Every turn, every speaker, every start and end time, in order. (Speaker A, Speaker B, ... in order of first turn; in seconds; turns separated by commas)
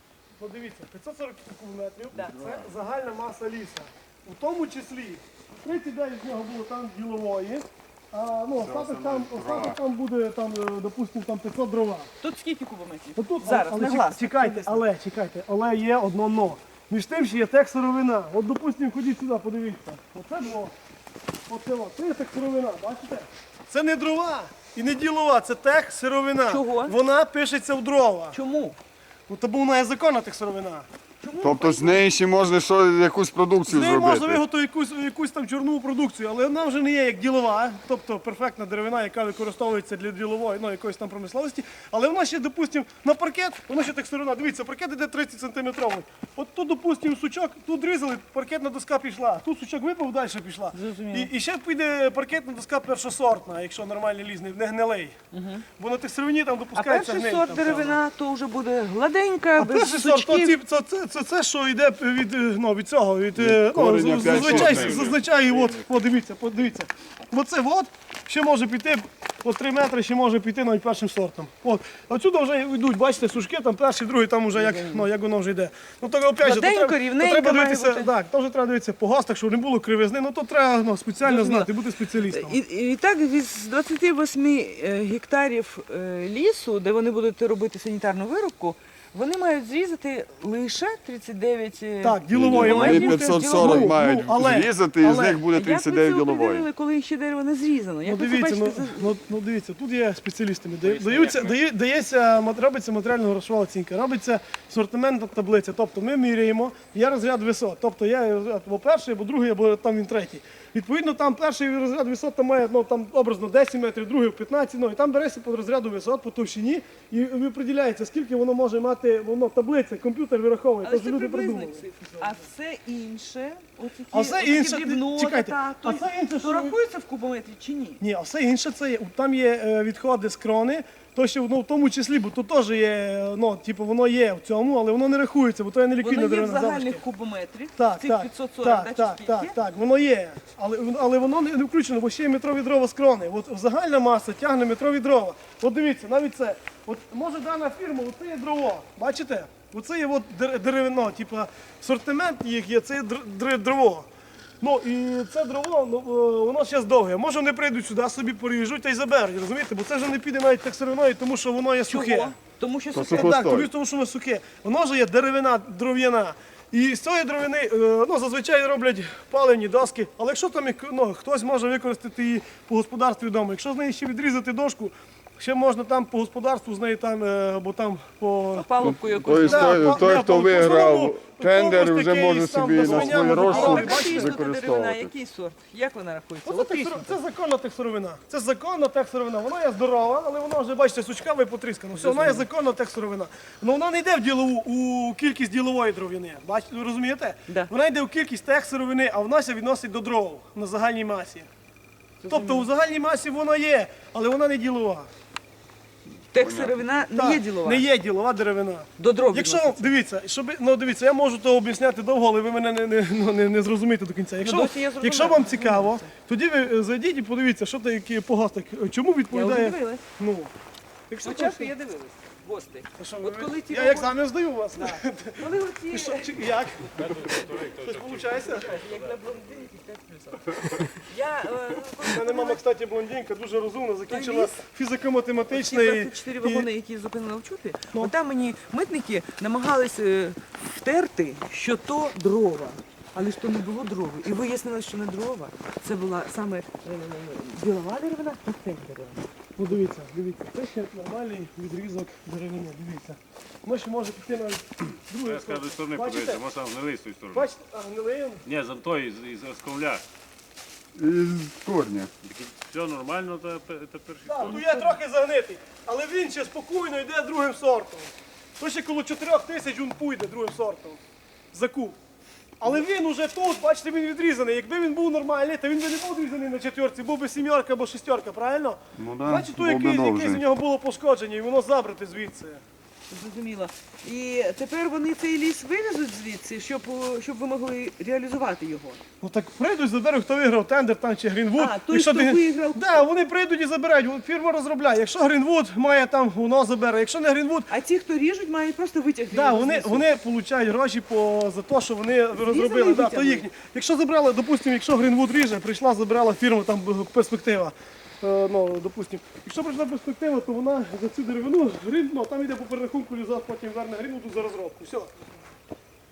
Speaker A: 0.4-12.1, Speaker B: 2.1-2.6, Speaker C: 8.6-9.8, Speaker B: 12.2-14.8, Speaker A: 13.1-20.7, Speaker A: 21.5-28.4, Speaker B: 26.4-26.9, Speaker B: 28.3-28.8, Speaker A: 29.3-30.9, Speaker B: 31.2-32.1, Speaker C: 31.4-34.4, Speaker A: 33.7-55.1, Speaker B: 50.7-51.3, Speaker B: 55.3-55.6, Speaker A: 55.8-58.0, Speaker B: 56.7-60.5, Speaker A: 59.5-82.6, Speaker C: 63.3-65.1, Speaker D: 64.2-65.9, Speaker B: 74.5-75.1, Speaker B: 76.4-78.1, Speaker B: 81.2-94.0, Speaker A: 92.0-94.7, Speaker C: 92.3-96.7, Speaker B: 95.0-99.1, Speaker A: 98.0-122.3, Speaker D: 100.8-101.6, Speaker B: 120.8-128.0, Speaker A: 124.1-126.8, Speaker A: 128.0-137.0, Speaker B: 136.0-139.5, Speaker A: 137.8-154.1, Speaker A: 154.6-162.3, Speaker B: 161.9-163.5, Speaker C: 162.9-163.7, Speaker A: 163.1-178.7, Speaker B: 178.5-180.1, Speaker C: 178.8-185.1, Speaker A: 179.4-184.3, Speaker B: 182.8-187.2, Speaker A: 186.4-201.5, Speaker B: 191.9-192.4, Speaker B: 202.2-202.7, Speaker A: 202.3-205.1, Speaker B: 206.3-207.9, Speaker C: 206.4-206.8, Speaker A: 207.1-220.5, Speaker B: 209.0-209.9, Speaker B: 214.4-216.1, Speaker B: 219.3-220.0, Speaker A: 221.1-221.7, Speaker B: 221.2-224.1, Speaker A: 223.0-228.7, Speaker B: 224.7-226.4, Speaker D: 226.9-229.0, Speaker B: 228.4-232.6, Speaker A: 232.1-236.7, Speaker B: 234.1-234.6, Speaker B: 235.5-249.3, Speaker A: 249.6-256.4, Speaker D: 255.2-257.5, Speaker A: 257.3-258.4, Speaker D: 258.4-260.0, Speaker C: 260.9-262.1, Speaker D: 262.2-264.8, Speaker A: 264.2-271.0, Speaker A: 271.5-271.9, Speaker A: 272.6-282.6, Speaker C: 279.0-280.4, Speaker B: 283.1-289.0, Speaker A: 289.2-297.7, Speaker B: 291.5-293.1, Speaker B: 297.7-300.1, Speaker A: 299.3-315.1, Speaker B: 302.3-303.5